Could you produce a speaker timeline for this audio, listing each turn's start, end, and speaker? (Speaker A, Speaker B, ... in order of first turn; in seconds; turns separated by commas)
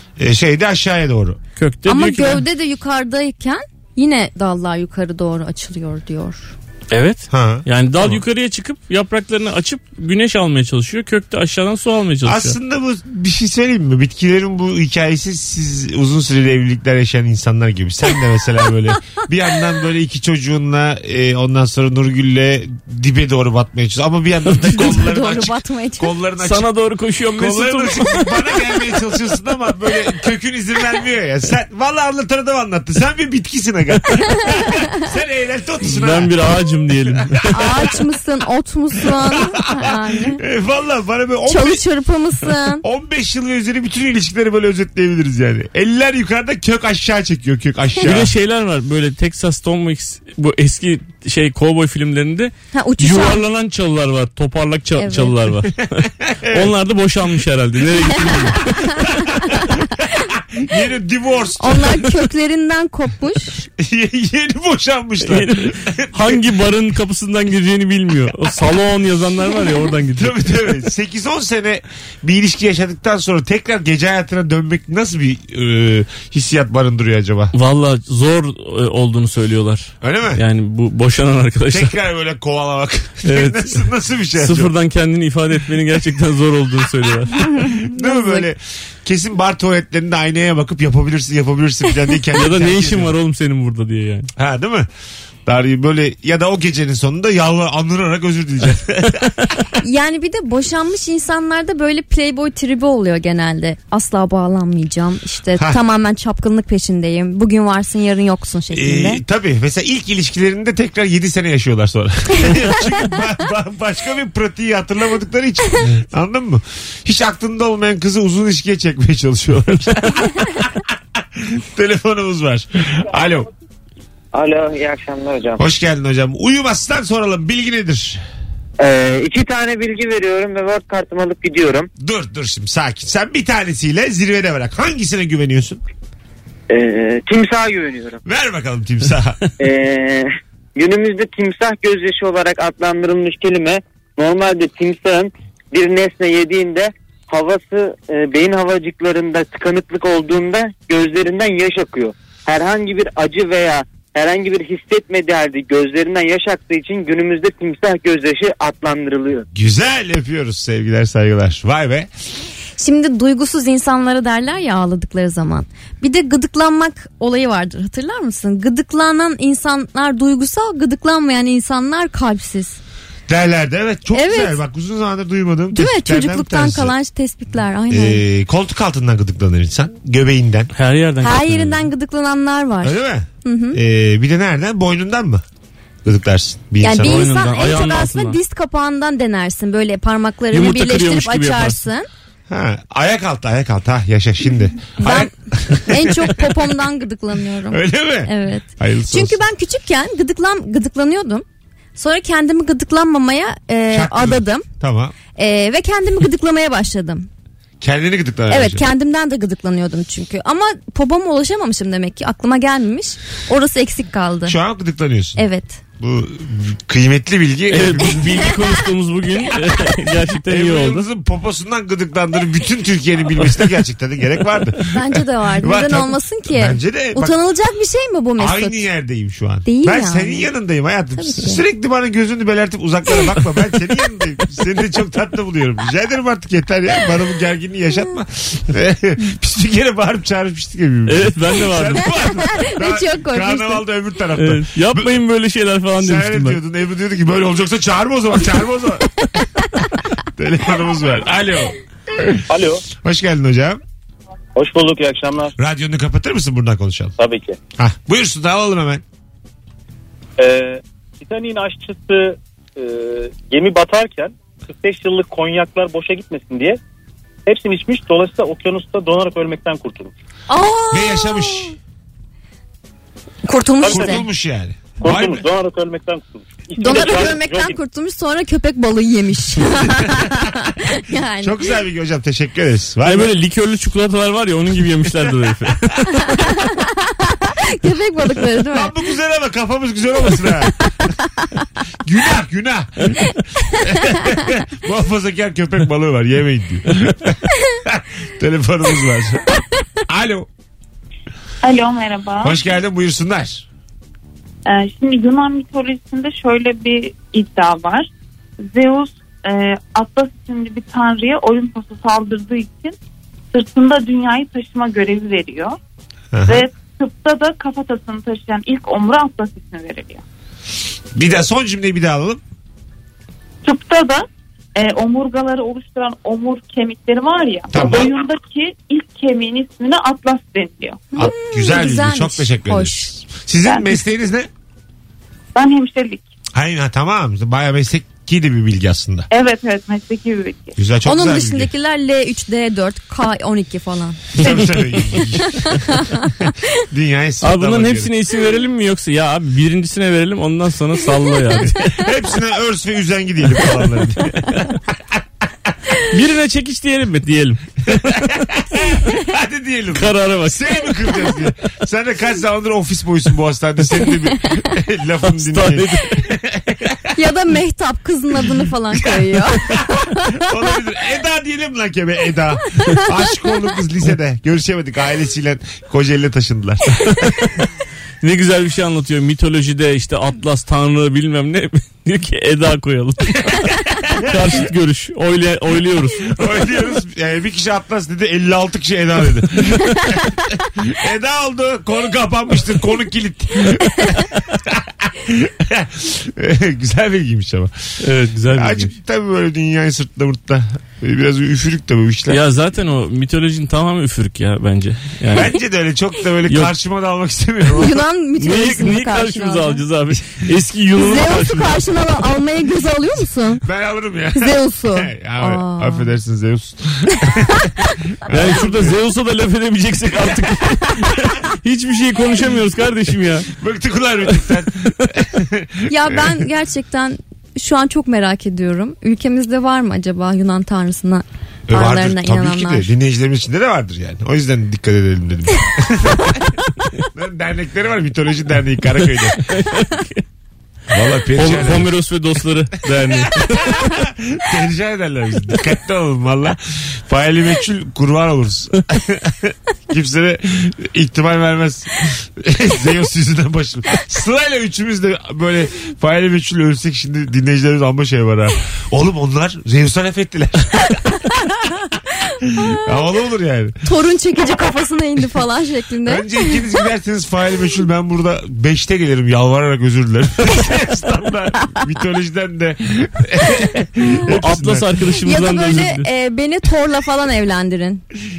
Speaker A: 0.2-1.4, Speaker B: 1.6-2.4, Speaker C: 1.9-6.5, Speaker B: 6.9-12.5, Speaker A: 7.3-8.2, Speaker A: 12.2-26.7, Speaker C: 24.7-26.1, Speaker B: 26.4-28.4, Speaker A: 27.3-36.5, Speaker C: 34.6-34.8, Speaker B: 35.9-37.5, Speaker A: 37.1-37.9, Speaker C: 37.5-40.4, Speaker A: 39.0-41.8, Speaker C: 41.5-42.8, Speaker A: 42.8-48.3, Speaker B: 48.0-58.7, Speaker C: 52.7-53.4, Speaker C: 55.0-55.4, Speaker A: 56.2-56.7, Speaker C: 58.7-59.6, Speaker A: 59.0-62.0, Speaker C: 61.6-63.6, Speaker A: 63.8-66.4, Speaker B: 65.2-70.7, Speaker A: 70.2-77.5, Speaker B: 77.5-81.9, Speaker A: 80.0-80.4, Speaker A: 81.7-84.7, Speaker B: 83.2-87.4, Speaker C: 87.4-88.5, Speaker A: 87.5-93.2, Speaker B: 92.3-94.3, Speaker A: 94.3-94.9, Speaker A: 95.5-99.5, Speaker C: 99.8-109.2, Speaker A: 108.7-123.5, Speaker D: 124.3-125.6, Speaker A: 125.6-128.2, Speaker D: 128.8-131.9, Speaker A: 132.0-135.8, Speaker D: 136.7-138.2, Speaker A: 138.2-139.4, Speaker D: 139.6-159.5, Speaker A: 159.5-162.1, Speaker C: 162.8-172.8, Speaker A: 173.3-176.9, Speaker C: 174.1-174.6, Speaker C: 175.7-178.2, Speaker A: 177.9-180.7, Speaker B: 180.7-181.9, Speaker C: 181.2-183.8, Speaker A: 182.8-185.4, Speaker A: 186.0-187.3, Speaker C: 186.8-192.1, Speaker B: 187.0-188.4, Speaker B: 190.5-191.8, Speaker A: 192.5-196.6, Speaker C: 195.0-201.4, Speaker A: 197.7-199.4, Speaker C: 201.9-204.6, Speaker A: 203.9-205.1, Speaker C: 205.3-207.3, Speaker A: 207.8-208.8, Speaker C: 208.5-214.6, Speaker A: 214.4-215.4, Speaker C: 215.4-215.8, Speaker A: 216.0-218.6, Speaker B: 217.7-221.0, Speaker A: 220.4-227.3, Speaker C: 224.9-228.8, Speaker A: 228.4-245.2, Speaker C: 229.6-230.5, Speaker C: 231.2-231.6, Speaker B: 241.1-242.1, Speaker C: 242.2-243.8, Speaker B: 244.3-246.6, Speaker A: 246.0-249.2, Speaker A: 250.3-253.8, Speaker E: 252.5-252.8, Speaker E: 254.5-255.5, Speaker A: 255.6-257.1, Speaker E: 257.2-257.6, Speaker A: 257.8-259.0, Speaker E: 260.4-266.8, Speaker E: 267.4-270.1, Speaker C: 270.5-271.7, Speaker A: 270.9-271.7, Speaker C: 273.4-274.3, Speaker E: 273.8-274.2, Speaker A: 273.9-275.4, Speaker E: 275.0-277.8, Speaker C: 276.8-281.7, Speaker A: 279.9-280.6, Speaker A: 281.4-283.3, Speaker B: 283.0-286.3, Speaker C: 286.2-288.9, Speaker A: 288.7-290.9, Speaker C: 291.2-291.6, Speaker A: 292.0-300.5, Speaker F: 301.6-302.7, Speaker A: 302.4-303.6, Speaker F: 304.6-308.1, Speaker F: 308.6-312.9, Speaker F: 313.5-315.8, Speaker A: 316.3-316.7, Speaker F: 316.4-320.2, Speaker A: 321.1-322.4, Speaker F: 323.6-331.1, Speaker A: 327.7-328.1, Speaker C: 331.1-333.1, Speaker A: 331.1-334.5, Speaker F: 333.6-334.0, Speaker F: 335.5-336.2, Speaker A: 336.5-339.3, Speaker F: 339.3-340.8, Speaker A: 340.8-341.7, Speaker C: 341.0-344.6, Speaker A: 344.4-346.3, Speaker C: 345.1-346.5, Speaker A: 346.9-348.1, Speaker B: 347.4-352.0, Speaker A: 351.8-355.2, Speaker B: 356.1-358.4, Speaker A: 357.9-367.1, Speaker B: 359.9-360.9, Speaker B: 365.2-366.2, Speaker C: 367.1-370.4, Speaker A: 368.9-377.1, Speaker B: 378.2-386.4, Speaker A: 383.5-384.6, Speaker A: 386.2-397.9, Speaker B: 398.0-398.9, Speaker A: 398.5-402.4, Speaker B: 402.3-405.5, Speaker A: 405.3-408.0, Speaker C: 407.8-409.8, Speaker B: 408.4-411.9, Speaker C: 411.0-413.6, Speaker A: 413.6-419.0, Speaker C: 414.3-416.1, Speaker C: 417.2-417.7, Speaker B: 418.3-423.5, Speaker A: 423.5-426.4, Speaker C: 425.9-432.9, Speaker A: 431.7-436.6, Speaker A: 437.1-439.5, Speaker B: 439.5-440.2, Speaker A: 440.9-441.9, Speaker B: 441.4-443.9, Speaker A: 443.0-461.2, Speaker A: 462.4-463.8, Speaker C: 463.8-466.6, Speaker A: 466.0-475.0, Speaker B: 474.3-476.1, Speaker C: 475.2-478.0